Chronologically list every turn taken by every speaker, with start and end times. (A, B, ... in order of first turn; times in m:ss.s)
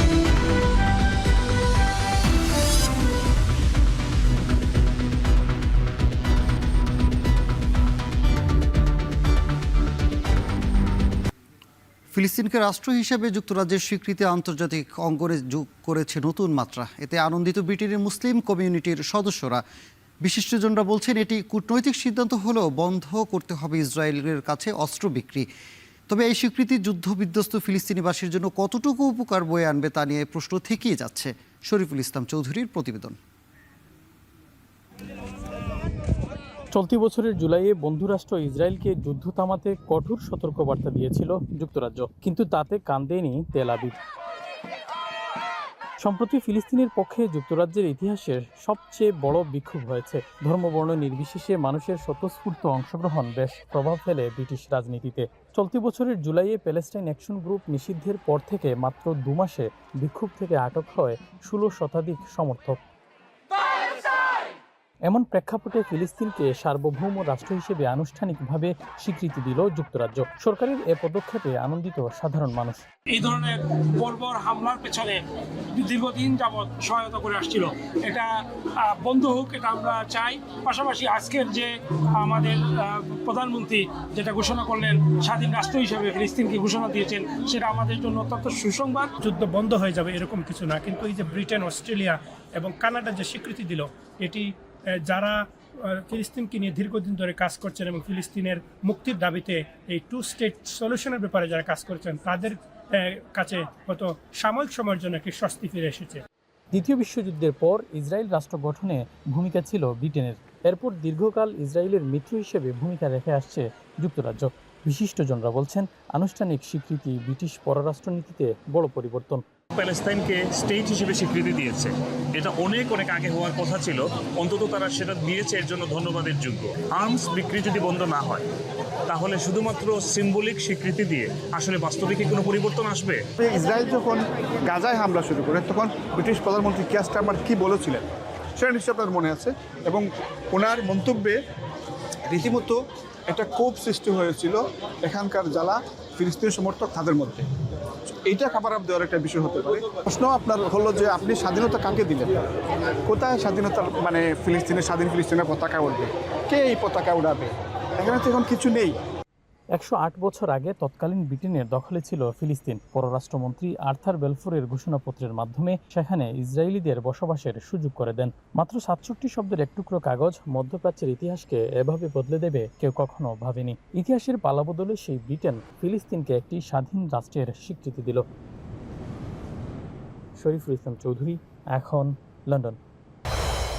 0:12.1-0:19.6 A
0:20.2-0:25.5 A
0:26.1-0:33.2 A
0:36.7-0:44.0 B
0:46.0-1:02.8 B
1:05.1-1:12.8 B
1:13.1-1:15.2 C
1:15.8-1:29.1 C
1:29.2-1:46.2 D
1:46.7-1:59.4 B
1:59.8-2:08.4 E
2:09.1-2:13.2 E
2:13.4-2:18.0 F
2:18.6-2:21.4 F
2:22.3-2:22.8 F
2:23.3-2:27.5 F
2:28.1-2:32.3 F
2:33.1-2:39.0 F
2:39.8-2:58.2 B
3:00.4-3:02.8 B